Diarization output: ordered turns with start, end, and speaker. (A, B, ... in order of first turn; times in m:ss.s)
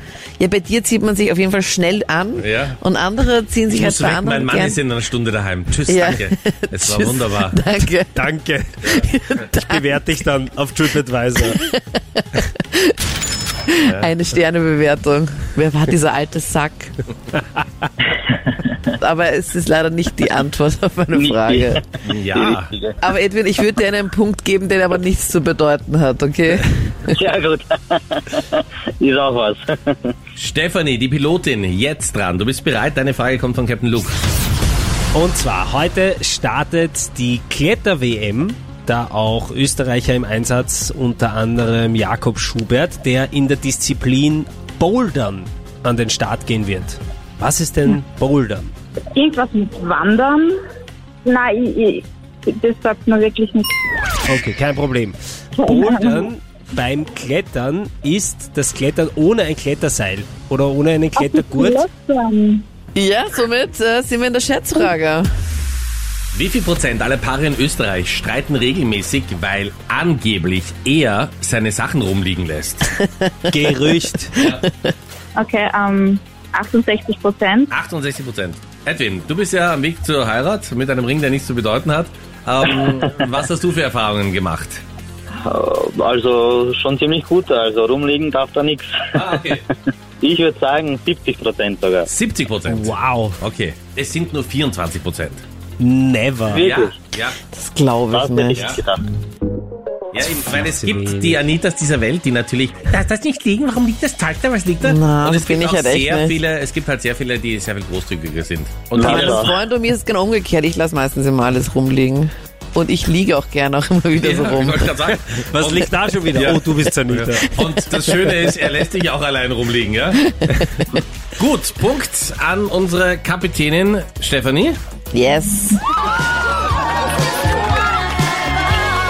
0:00.4-0:04.8 A
0:02.4-0:02.8 B
0:03.7-0:07.6 B
0:05.8-0:08.3 A
0:08.2-0:11.6 C
0:08.9-0:10.0 A
0:11.5-0:12.9 A
0:13.7-0:16.9 A
0:13.8-0:14.1 B
0:18.9-0:21.8 A
0:21.2-0:23.0 D
0:22.0-0:22.7 B
0:23.0-0:27.2 A
0:27.1-0:30.1 D
0:30.4-0:34.2 B
0:35.1-0:48.7 C
0:49.2-0:50.5 E
0:51.2-0:53.7 E
0:54.2-1:01.8 C
0:55.6-0:56.3 E
1:01.2-1:02.7 E
1:03.0-1:05.3 A
1:06.3-1:12.9 B
1:13.5-1:14.3 C
1:14.4-1:14.7 A
1:15.4-1:17.7 E
1:17.7-1:24.8 B
1:25.4-1:28.9 D
1:29.1-1:29.6 B
1:30.2-1:32.1 D
1:32.1-1:35.4 B
1:32.7-1:33.4 C
1:35.8-1:36.6 C
1:36.5-1:37.0 D
1:36.6-1:37.4 B
1:37.5-1:38.8 A
1:38.1-1:39.0 D
1:38.6-1:38.8 B
1:40.1-1:49.5 B
1:40.5-1:41.4 C
1:44.8-1:46.4 A
1:48.9-1:49.5 D
1:49.0-1:54.9 A
1:54.2-2:00.7 B
1:55.1-1:57.5 C
2:01.4-2:04.8 B
2:05.1-2:05.8 A